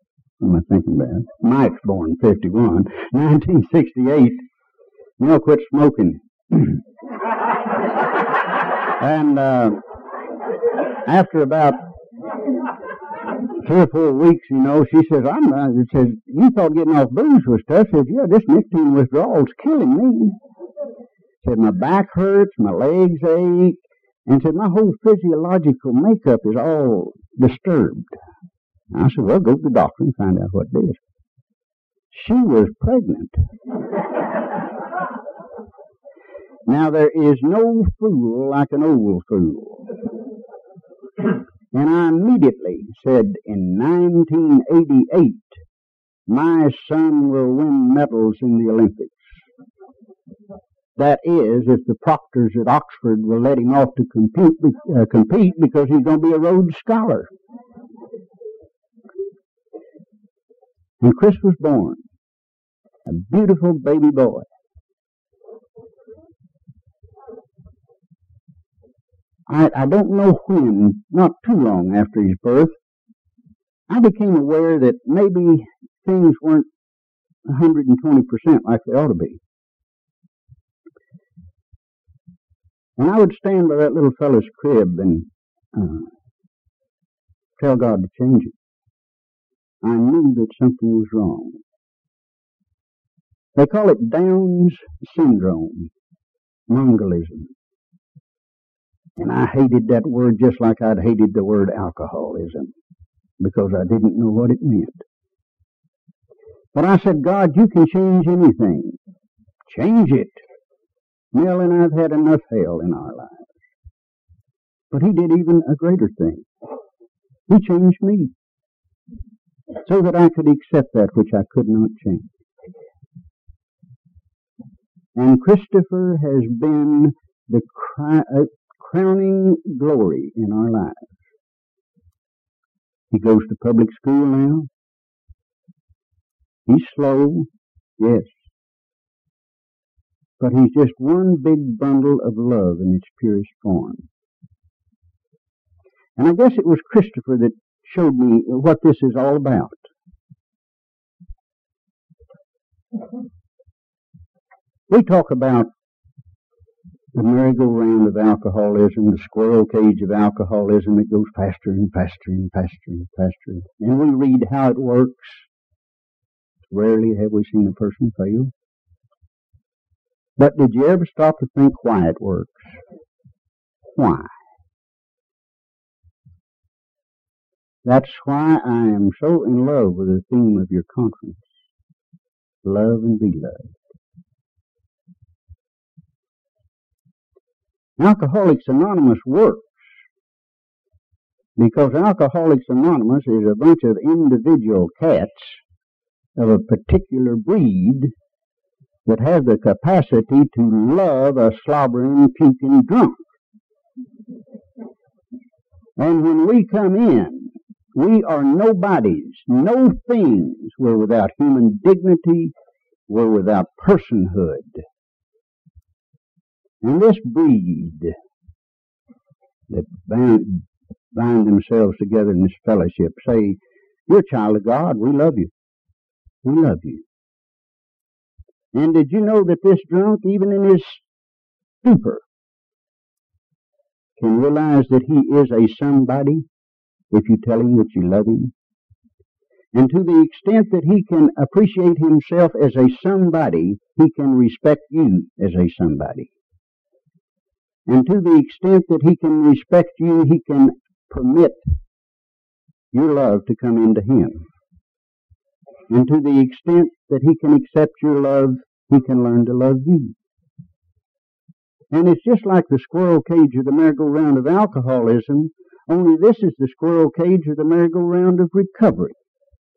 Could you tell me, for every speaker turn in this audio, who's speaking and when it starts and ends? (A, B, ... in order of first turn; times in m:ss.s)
0:00.4-0:04.4 A
0:05.2-0:06.8 A
0:09.0-0:09.8 A
0:11.1-0:11.8 A
0:13.6-0:20.4 A
0:21.4-0:28.2 A
0:28.9-0:31.0 A
0:32.1-0:33.4 A
0:36.7-0:39.9 A
0:41.7-0:45.6 A
0:46.3-0:49.3 A
0:51.0-0:57.3 A
1:01.0-1:02.0 A
1:03.1-1:04.5 A
1:09.5-1:12.8 A
1:13.9-1:16.7 A
1:17.5-1:19.4 A
1:23.0-1:26.1 A
1:27.6-1:28.6 A
1:29.8-1:31.6 A
1:33.6-1:35.9 A
1:36.7-1:37.5 A
1:39.2-1:42.7 A
1:43.4-1:45.0 A
1:46.7-1:49.0 A
1:49.7-1:50.4 A
1:51.3-1:53.5 A
1:54.9-1:56.5 A
1:57.5-1:58.3 A
1:59.9-2:02.3 A
2:05.2-2:11.1 A
2:13.1-2:14.7 A
2:16.7-2:18.4 A
2:20.4-2:24.1 A
2:26.2-2:29.8 A
2:34.9-2:35.7 A
2:37.1-2:45.4 A
2:46.7-2:48.5 A
2:50.4-2:52.8 A
2:54.0-2:54.3 A
2:57.8-3:01.5 A
3:02.6-3:03.7 A
3:08.0-3:09.8 A
3:11.6-3:15.6 A
3:16.4-3:18.1 A
3:19.1-3:23.2 A
3:26.0-3:32.5 A
3:33.1-3:34.8 A
3:36.8-3:38.2 A
3:39.7-3:45.5 A
3:46.4-3:47.0 A
3:48.7-3:51.0 A
3:51.8-3:52.2 A
3:54.2-3:56.5 A
3:57.1-3:58.5 A
3:59.7-4:06.3 A
4:07.9-4:11.6 A
4:12.9-4:14.4 A
4:15.9-4:20.2 A
4:21.9-4:29.2 A